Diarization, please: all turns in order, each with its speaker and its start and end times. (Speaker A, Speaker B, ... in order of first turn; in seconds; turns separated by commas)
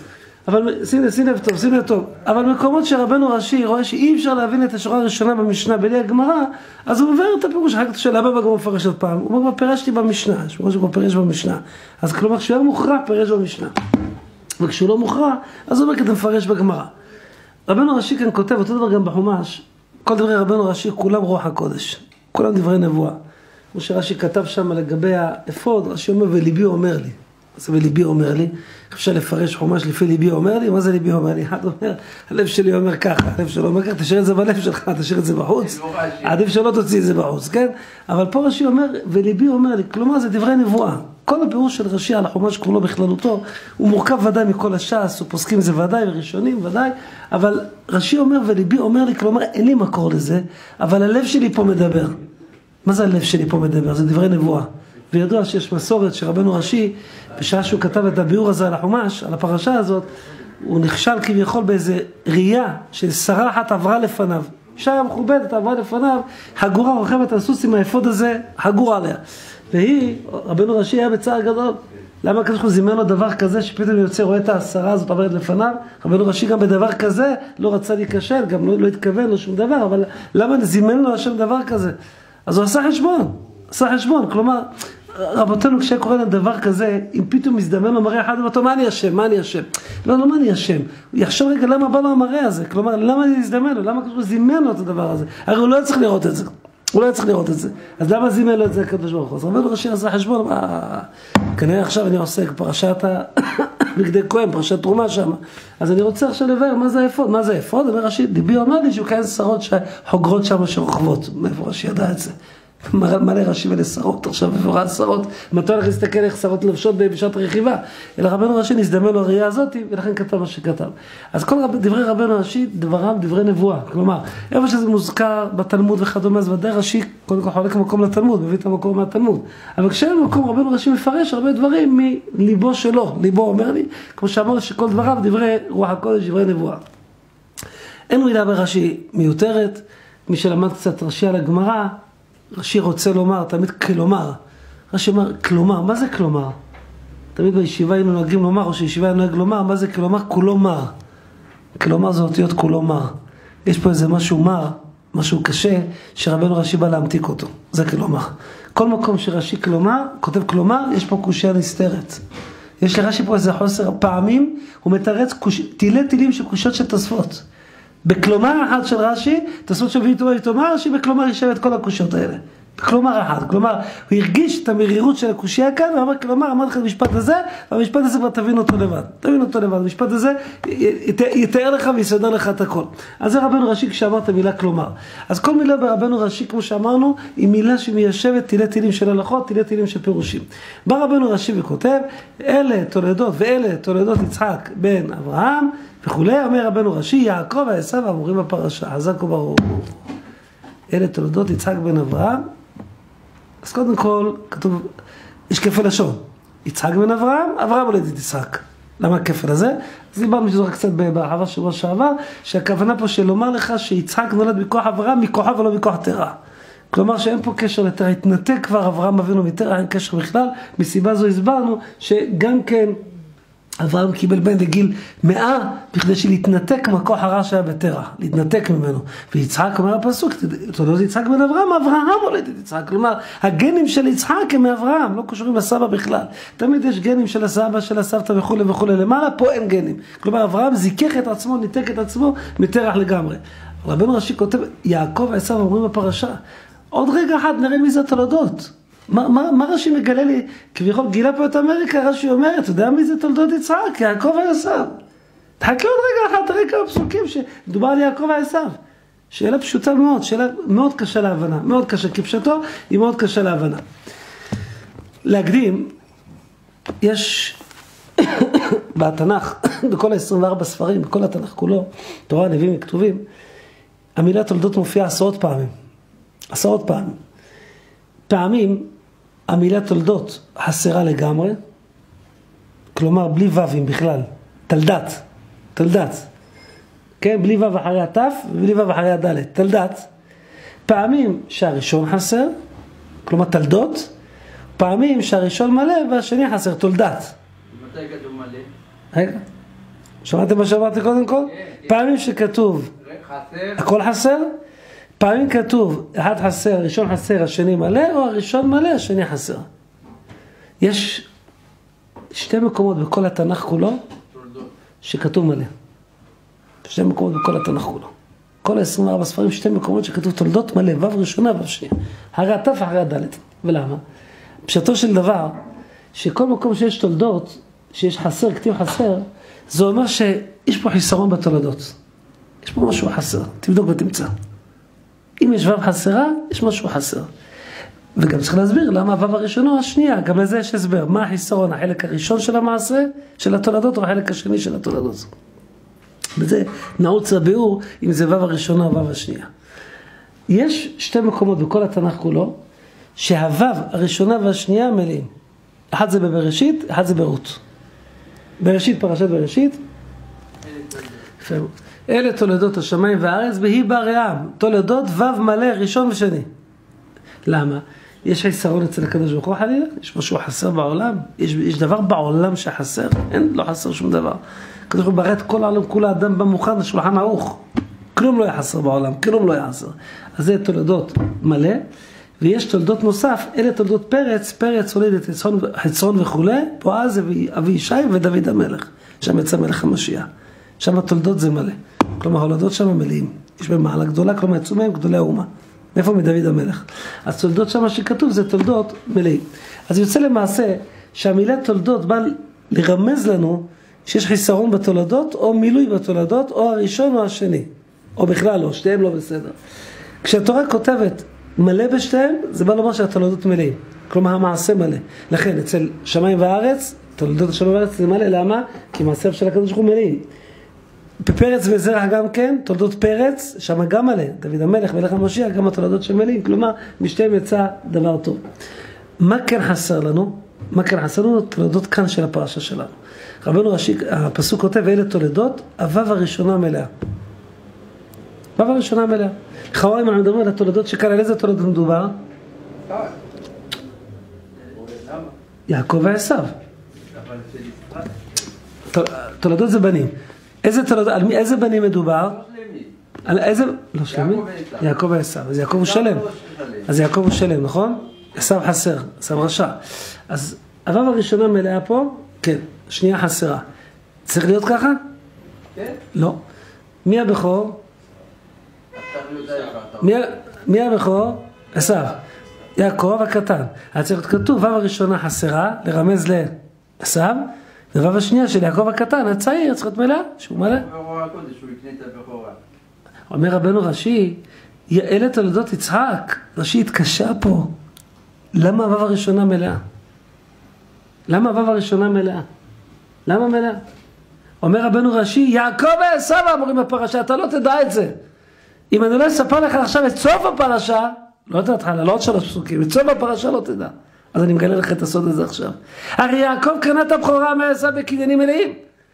Speaker A: 0.5-13.7, Speaker A: 14.6-16.9, Speaker A: 17.7-23.2, Speaker A: 23.7-52.2, Speaker B: 35.6-36.4, Speaker A: 52.8-60.1, Speaker A: 60.6-136.8, Speaker A: 138.1-142.0, Speaker A: 142.5-144.4, Speaker A: 144.9-146.6, Speaker A: 147.3-150.9, Speaker A: 151.8-162.2, Speaker A: 162.8-167.4, Speaker A: 168.0-200.0, Speaker A: 200.9-202.4, Speaker A: 203.6-204.9, Speaker A: 205.5-216.4, Speaker A: 216.9-223.0, Speaker A: 223.8-246.4, Speaker A: 246.9-255.0, Speaker A: 255.6-258.8, Speaker A: 259.3-263.8, Speaker A: 265.2-265.9, Speaker A: 267.0-267.6, Speaker A: 268.2-273.2, Speaker A: 274.1-275.7, Speaker A: 276.5-277.2, Speaker A: 278.3-278.9, Speaker A: 279.5-281.6, Speaker A: 282.9-285.2, Speaker A: 285.7-286.3, Speaker A: 287.2-290.1, Speaker A: 290.9-292.5, Speaker A: 293.2-294.1, Speaker A: 294.8-297.3, Speaker B: 297.7-298.7, Speaker A: 299.1-299.4, Speaker A: 300.2-302.9, Speaker B: 301.5-301.9, Speaker B: 303.0-303.9, Speaker A: 303.8-304.5, Speaker A: 305.2-309.6, Speaker A: 310.8-311.2, Speaker A: 312.3-314.0, Speaker B: 314.3-314.7, Speaker A: 315.0-315.7, Speaker A: 316.8-318.1, Speaker A: 318.6-324.0, Speaker A: 324.6-325.6, Speaker A: 326.1-331.9, Speaker A: 332.6-334.3, Speaker A: 335.4-337.3, Speaker A: 338.1-345.3, Speaker A: 346.4-349.5, Speaker A: 350.5-352.6, Speaker A: 353.2-355.3, Speaker A: 355.9-357.6, Speaker A: 358.6-359.8, Speaker B: 360.6-361.3, Speaker A: 361.4-366.5, Speaker A: 367.4-377.6, Speaker A: 378.1-381.8, Speaker A: 382.4-390.3, Speaker A: 390.8-409.5, Speaker A: 410.2-420.2, Speaker A: 421.2-428.4, Speaker A: 429.2-436.9, Speaker A: 438.6-442.2, Speaker B: 444.6-445.3, Speaker A: 445.7-446.5, Speaker B: 447.1-448.1, Speaker A: 448.9-452.4, Speaker B: 452.2-452.9, Speaker A: 453.2-456.2, Speaker B: 454.1-454.9, Speaker B: 455.6-456.9, Speaker A: 456.9-463.6, Speaker A: 464.3-465.0, Speaker B: 465.7-466.0, Speaker A: 466.1-466.4, Speaker A: 467.0-467.8, Speaker B: 468.9-470.1, Speaker A: 470.0-472.2, Speaker A: 472.8-480.9, Speaker B: 480.6-482.6, Speaker A: 483.3-487.7, Speaker A: 488.5-489.8, Speaker A: 491.3-492.4, Speaker A: 493.2-493.8, Speaker A: 494.6-498.2, Speaker A: 498.9-508.8